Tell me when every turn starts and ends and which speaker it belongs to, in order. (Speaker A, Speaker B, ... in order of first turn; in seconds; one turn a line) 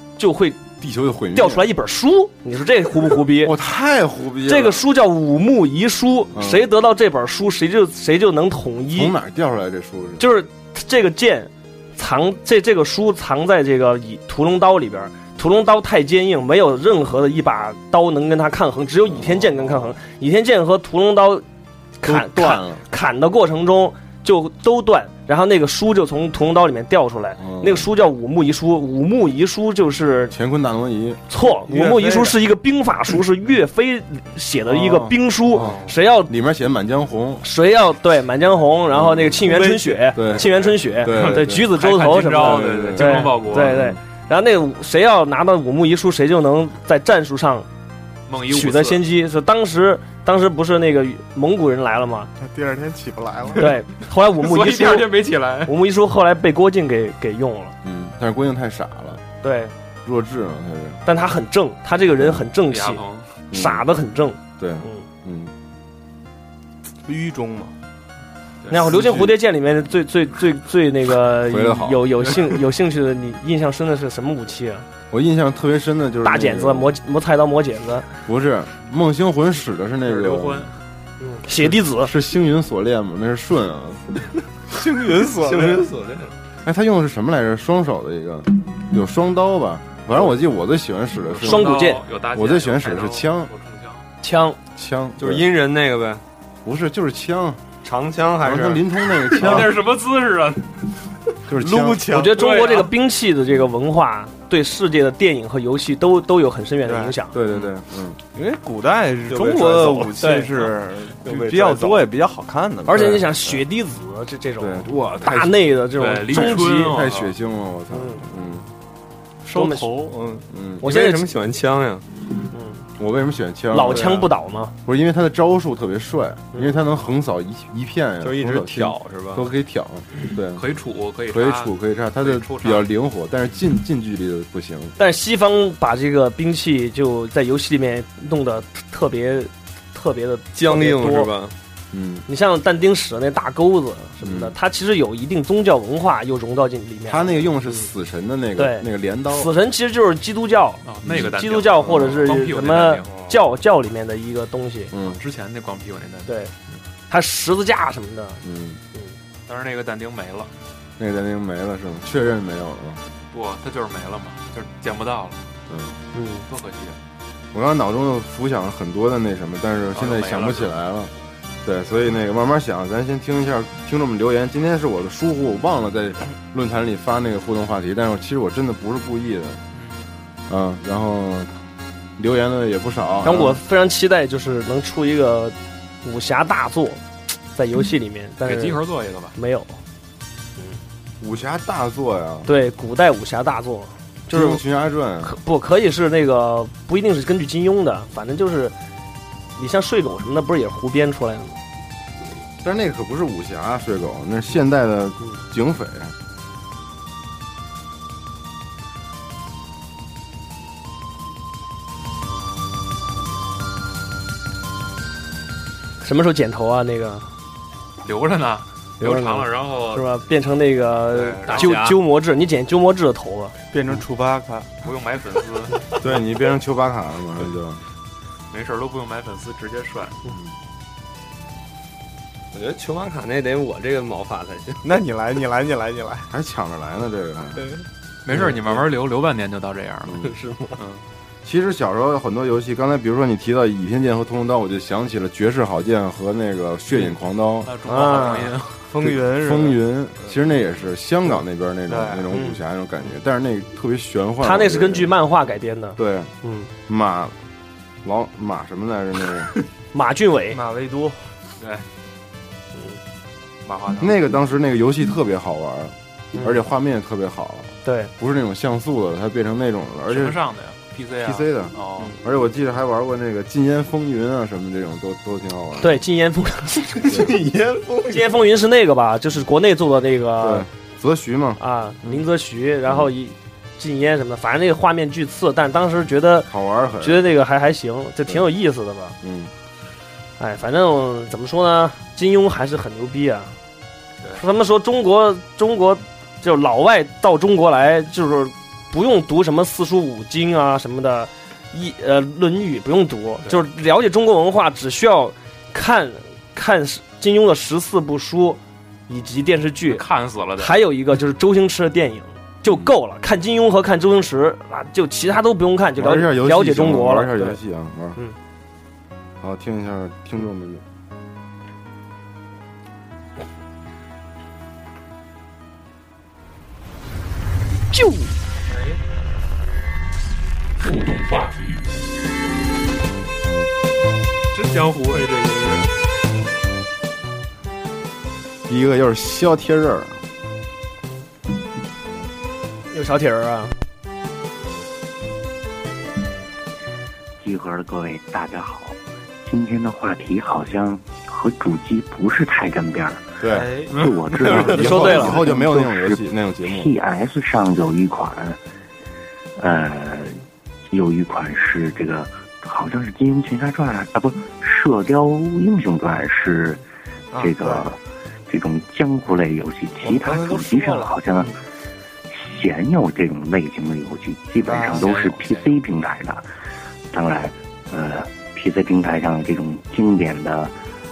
Speaker A: 0.2-0.7
Speaker B: 0.8-1.7
Speaker A: 1.4-3.5
Speaker B: 3.4-4.8
Speaker A: 4.4-9.1
Speaker B: 6.3-6.7
Speaker B: 8.9-10.2
Speaker A: 10.2-21.4
Speaker B: 19.1-20.0
Speaker A: 22.0-30.4
Speaker B: 22.0-22.8
Speaker B: 27.4-27.9
Speaker B: 30.3-31.2
Speaker A: 31.3-36.3
Speaker C: 31.6-32.4
Speaker B: 34.7-37.5
Speaker A: 37.4-47.7
Speaker B: 38.9-39.5
Speaker C: 39.5-40.2
Speaker B: 40.1-41.8
Speaker D: 40.7-43.8
Speaker B: 42.3-44.0
Speaker D: 48.3-49.0
Speaker A: 48.5-52.3
Speaker C: 52.4-53.7
Speaker A: 53.5-57.7
Speaker D: 54.4-55.8
Speaker B: 57.8-59.2
Speaker A: 59.4-59.7
Speaker B: 60.0-61.0
Speaker A: 61.0-65.0
Speaker B: 62.2-62.5
Speaker D: 62.7-63.3
Speaker B: 63.5-63.9
Speaker B: 64.6-65.5
Speaker C: 67.0-67.7
Speaker D: 68.6-69.2
Speaker A: 68.7-74.9
Speaker B: 71.5-72.0
Speaker B: 75.1-76.9
Speaker A: 76.2-78.1
Speaker B: 78.3-80.7
Speaker D: 80.0-80.8
Speaker A: 81.2-82.1
Speaker B: 81.5-84.0
Speaker C: 84.7-85.9
Speaker E: 85.4-86.3
Speaker B: 86.6-91.7
Speaker D: 91.3-94.1
Speaker A: 91.4-92.0
Speaker B: 92.3-93.5
Speaker A: 94.2-94.6
Speaker B: 94.8-95.5
Speaker E: 95.2-96.2
Speaker B: 96.7-97.6
Speaker E: 97.8-98.8
Speaker B: 98.4-99.8
Speaker D: 99.3-100.8
Speaker B: 101.5-102.1
Speaker C: 101.5-102.3
Speaker A: 102.1-107.4
Speaker D: 102.3-102.9
Speaker C: 106.8-107.2
Speaker B: 107.3-108.2
Speaker C: 108.3-113.2
Speaker E: 109.3-110.2
Speaker A: 110.2-110.6
Speaker E: 111.2-112.0
Speaker A: 112.9-117.0
Speaker B: 112.9-113.6
Speaker B: 114.6-115.7
Speaker D: 116.0-117.3
Speaker B: 116.3-118.7
Speaker A: 117.9-118.2
Speaker A: 119.5-120.1
Speaker C: 119.5-120.5
Speaker B: 120.5-120.9
Speaker A: 120.8-121.3
Speaker E: 120.8-122.0
Speaker A: 122.5-122.8
Speaker B: 123.0-124.3
Speaker A: 123.7-124.7
Speaker B: 124.8-130.6
Speaker E: 128.2-129.5
Speaker D: 130.5-132.9
Speaker B: 131.3-134.9
Speaker A: 135.0-141.3
Speaker E: 140.6-141.5
Speaker B: 141.9-142.2
Speaker A: 142.3-147.8
Speaker B: 144.2-144.6
Speaker B: 147.1-149.5
Speaker A: 148.6-154.9
Speaker D: 150.8-153.3
Speaker B: 151.1-152.3
Speaker B: 154.9-155.2
Speaker D: 155.0-156.4
Speaker A: 156.3-156.5
Speaker A: 157.1-158.4
Speaker B: 158.4-158.8
Speaker D: 159.5-160.5
Speaker B: 161.0-163.0
Speaker D: 163.3-165.5
Speaker B: 165.7-166.0
Speaker A: 166.1-166.5
Speaker D: 166.5-167.0
Speaker B: 167.5-171.1
Speaker D: 169.9-170.7
Speaker B: 171.6-179.6
Speaker D: 179.7-180.1
Speaker B: 180.5-181.5
Speaker B: 182.2-183.6
Speaker A: 183.2-187.0
Speaker A: 187.5-188.8
Speaker D: 188.4-189.4
Speaker A: 189.3-189.8
Speaker B: 191.2-192.5
Speaker A: 192.5-194.6
Speaker B: 194.3-195.4
Speaker A: 195.2-198.8
Speaker A: 199.6-201.6
Speaker B: 202.6-206.1
Speaker A: 216.0-217.3
Speaker D: 218.0-220.1
Speaker A: 219.0-223.5
Speaker D: 221.1-222.0
Speaker C: 223.7-224.7
Speaker D: 224.8-225.8
Speaker B: 226.0-227.8
Speaker D: 228.5-230.2
Speaker E: 232.5-234.8
Speaker C: 234.8-236.3
Speaker B: 236.3-237.7
Speaker D: 238.2-241.0
Speaker E: 240.2-240.8
Speaker B: 241.4-247.7
Speaker D: 247.6-248.9
Speaker A: 247.8-248.6
Speaker C: 248.9-250.3
Speaker B: 249.0-255.1
Speaker C: 251.9-252.3
Speaker A: 252.3-252.6
Speaker A: 254.4-256.7
Speaker B: 256.0-256.3
Speaker B: 256.9-257.4
Speaker B: 258.0-259.5
Speaker A: 259.9-260.6
Speaker C: 260.5-261.2
Speaker D: 261.6-261.9
Speaker D: 263.6-264.4
Speaker B: 264.0-270.4
Speaker A: 266.4-266.7
Speaker A: 267.9-268.1
Speaker D: 270.1-272.2
Speaker B: 271.2-276.0
Speaker A: 275.8-277.1
Speaker E: 277.0-278.4
Speaker B: 277.1-277.3
Speaker A: 278.1-280.7
Speaker B: 280.4-282.2
Speaker A: 281.6-289.2
Speaker B: 282.9-283.1
Speaker B: 286.5-287.3
Speaker B: 289.2-289.5
Speaker A: 290.4-293.6
Speaker A: 294.3-317.6
Speaker D: 309.9-310.8
Speaker B: 316.0-318.2
Speaker B: 319.4-320.8
Speaker A: 327.9-328.3
Speaker D: 328.7-329.0
Speaker D: 330.8-331.7
Speaker D: 334.5-335.9
Speaker B: 338.7-340.2
Speaker A: 342.9-343.8
Speaker F: 347.4-353.4
Speaker B: 353.4-353.7
Speaker C: 353.5-353.9
Speaker F: 353.9-358.6
Speaker B: 354.4-356.9
Speaker A: 354.7-355.5
Speaker F: 359.6-366.8
Speaker C: 367.3-367.9
Speaker F: 367.4-371.6
Speaker C: 370.0-371.6
Speaker F: 372.3-376.5
Speaker C: 374.6-375.1
Speaker D: 374.9-375.8
Speaker F: 377.1-380.8